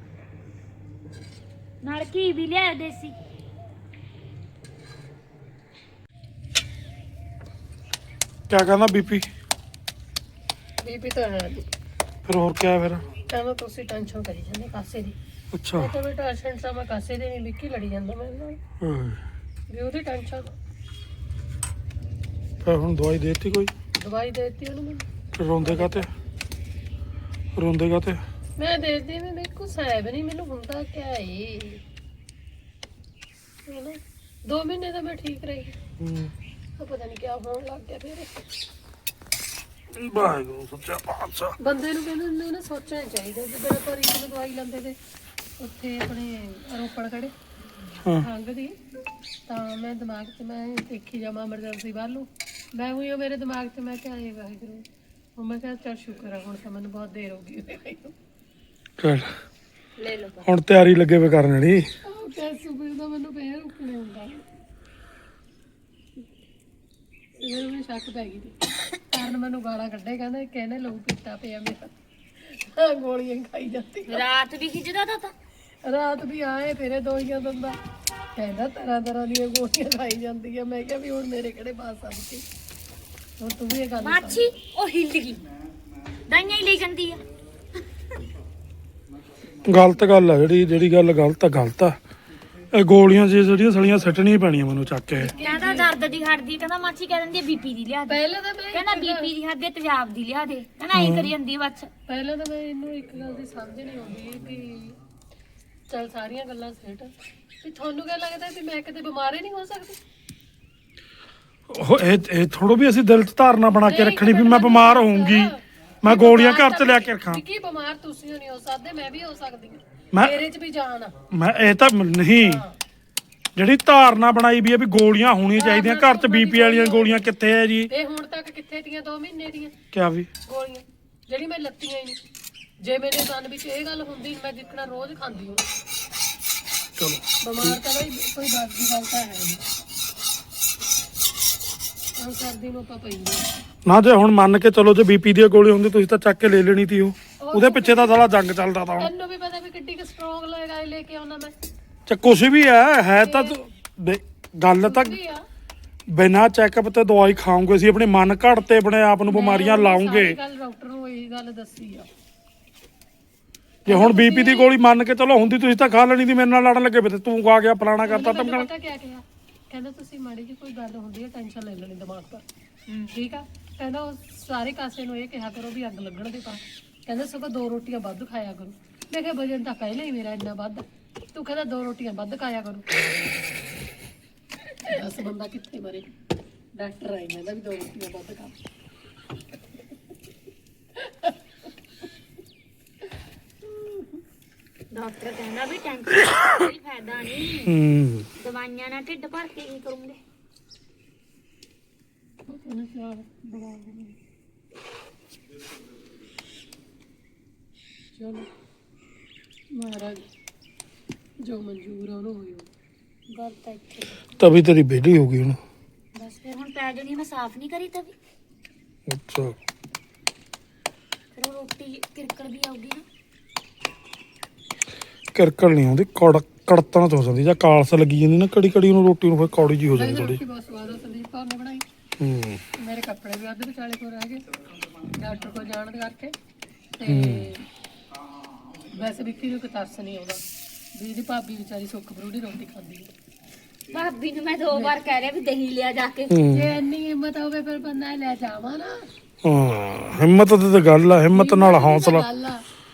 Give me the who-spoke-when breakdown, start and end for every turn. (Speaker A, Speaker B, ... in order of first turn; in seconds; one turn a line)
Speaker A: 1.8-3.2
Speaker B: 8.5-9.3
Speaker C: 10.8-11.7
Speaker B: 12.2-13.1
Speaker C: 13.3-15.2
Speaker B: 15.5-15.9
Speaker C: 15.8-18.6
Speaker B: 18.8-19.2
Speaker C: 19.7-20.5
Speaker B: 22.6-23.7
Speaker C: 24.0-25.1
Speaker B: 25.4-26.1
Speaker C: 25.6-26.1
Speaker B: 27.6-28.2
Speaker C: 28.6-31.8
Speaker C: 33.7-35.8
Speaker B: 36.0-36.3
Speaker C: 36.8-38.5
Speaker B: 39.9-41.6
Speaker C: 41.6-45.0
Speaker C: 45.6-47.3
Speaker C: 48.2-48.8
Speaker C: 49.5-54.9
Speaker C: 55.4-58.1
Speaker B: 59.0-59.3
Speaker A: 60.0-60.5
Speaker B: 60.4-61.9
Speaker C: 62.0-64.5
Speaker C: 67.4-68.6
Speaker C: 69.1-74.2
Speaker A: 74.1-75.3
Speaker C: 75.8-77.8
Speaker C: 78.3-82.5
Speaker C: 83.4-84.5
Speaker A: 84.0-85.4
Speaker A: 86.3-87.2
Speaker B: 89.7-92.0
Speaker B: 92.7-95.3
Speaker C: 95.2-95.9
Speaker A: 95.4-101.9
Speaker C: 98.1-99.3
Speaker B: 100.9-101.3
Speaker C: 102.1-105.0
Speaker C: 105.9-110.0
Speaker B: 111.7-115.5
Speaker C: 113.8-121.2
Speaker B: 116.0-117.4
Speaker B: 120.1-120.4
Speaker B: 121.3-122.6
Speaker C: 122.4-122.8
Speaker B: 123.5-127.9
Speaker C: 125.6-127.2
Speaker C: 127.9-129.7
Speaker B: 129.9-130.3
Speaker C: 130.5-132.2
Speaker C: 132.8-135.7
Speaker B: 137.0-137.8
Speaker C: 137.4-139.7
Speaker C: 142.2-143.7
Speaker B: 143.8-149.1
Speaker C: 147.4-148.2
Speaker C: 149.0-151.5
Speaker B: 152.1-155.2
Speaker C: 153.2-153.6
Speaker C: 154.8-155.4
Speaker B: 156.1-160.4
Speaker C: 159.3-162.1
Speaker B: 163.8-168.7
Speaker C: 163.9-164.7
Speaker C: 168.0-172.4
Speaker A: 172.9-173.2
Speaker C: 173.1-183.0
Speaker C: 184.8-186.1
Speaker C: 186.8-188.6
Speaker C: 191.0-191.3
Speaker A: 194.9-197.8
Speaker B: 197.7-198.3
Speaker A: 198.4-200.2
Speaker C: 202.5-204.2
Speaker C: 208.2-208.5
Speaker C: 209.7-210.3
Speaker C: 211.4-212.7
Speaker A: 213.3-214.2
Speaker B: 214.4-215.6
Speaker A: 216.2-218.2
Speaker B: 219.1-219.6
Speaker A: 221.4-223.1
Speaker B: 225.3-230.4
Speaker C: 229.9-231.8
Speaker B: 232.2-232.6
Speaker C: 232.8-234.4
Speaker C: 235.1-236.3
Speaker C: 237.0-237.6
Speaker B: 237.1-237.5
Speaker C: 238.9-240.4
Speaker C: 240.9-243.1
Speaker A: 243.9-246.4
Speaker C: 244.7-245.0
Speaker B: 246.3-246.8
Speaker C: 246.5-249.1
Speaker B: 249.4-252.3
Speaker C: 251.3-252.6